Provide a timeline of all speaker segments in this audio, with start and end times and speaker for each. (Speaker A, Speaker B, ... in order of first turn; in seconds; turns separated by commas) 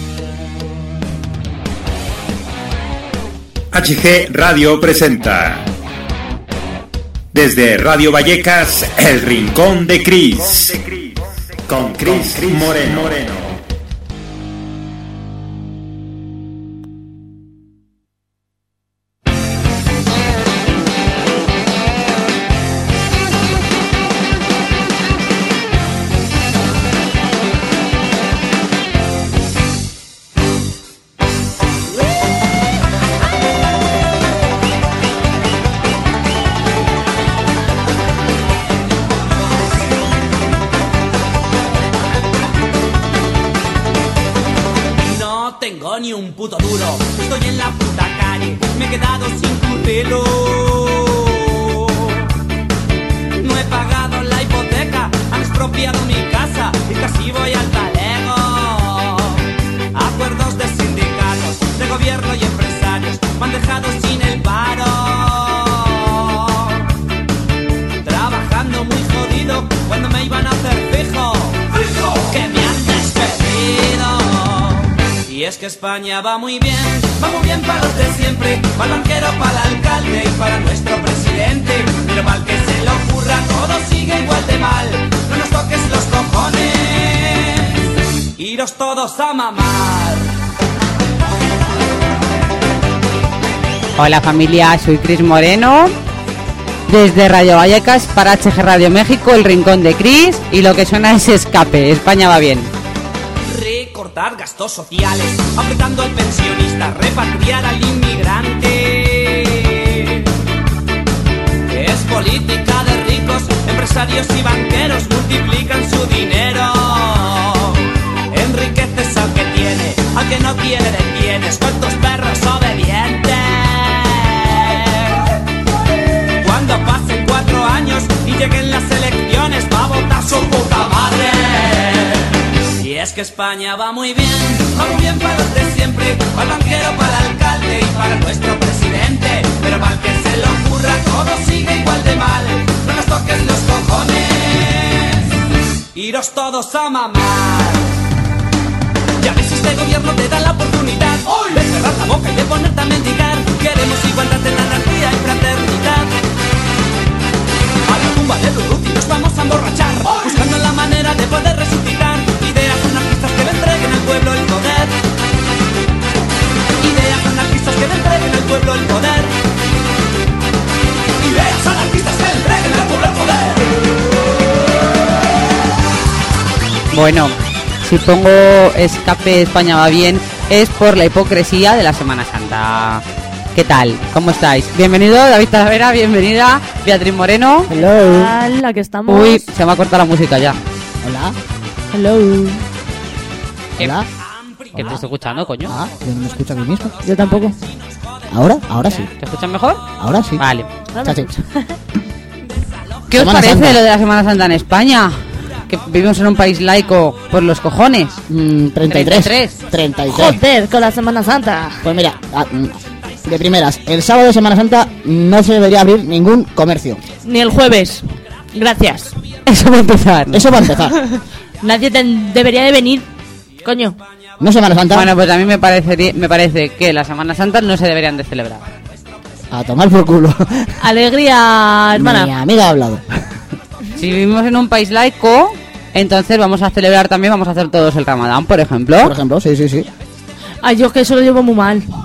Speaker A: 3.7-5.7, Speaker A: 7.3-11.1, Speaker A: 11.7-13.6, Speaker B: 45.0-52.3, Speaker B: 53.3-66.9, Speaker B: 68.0-87.7, Speaker B: 88.4-90.3, Speaker C: 94.0-95.9, Speaker C: 96.9-102.7, Speaker B: 103.4-110.3, Speaker B: 111.7-125.2, Speaker B: 126.4-145.3, Speaker B: 145.9-147.9, Speaker B: 149.2-156.1, Speaker B: 157.8-164.9, Speaker B: 166.8-169.3, Speaker B: 171.2-173.7, Speaker C: 176.9-183.0, Speaker C: 183.5-187.7, Speaker D: 187.7-188.3, Speaker E: 187.8-189.4, Speaker C: 189.1-190.6, Speaker D: 191.0-191.4, Speaker E: 191.9-192.6, Speaker D: 193.8-194.1, Speaker C: 194.7-195.8, Speaker D: 194.7-195.0, Speaker D: 195.7-196.9, Speaker E: 197.0-197.6, Speaker D: 198.3-199.1, Speaker C: 199.2-199.8, Speaker D: 200.0-200.4, Speaker C: 200.4-200.7, Speaker E: 200.9-201.8, Speaker D: 201.0-201.3, Speaker C: 203.1-205.2, Speaker D: 203.1-203.8, Speaker C: 205.7-208.2, Speaker D: 208.3-210.4, Speaker C: 208.9-209.6, Speaker E: 210.1-211.8, Speaker D: 211.8-217.0, Speaker E: 217.2-219.1, Speaker C: 219.4-220.4, Speaker D: 220.3-221.0, Speaker E: 221.1-223.1, Speaker E: 223.6-224.0, Speaker D: 224.4-225.1, Speaker C: 224.9-228.7, Speaker D: 229.5-230.9, Speaker E: 230.8-232.3, Speaker D: 231.9-233.2, Speaker C: 233.9-239.2, Speaker D: 239.0-239.9, Speaker E: 240.6-241.8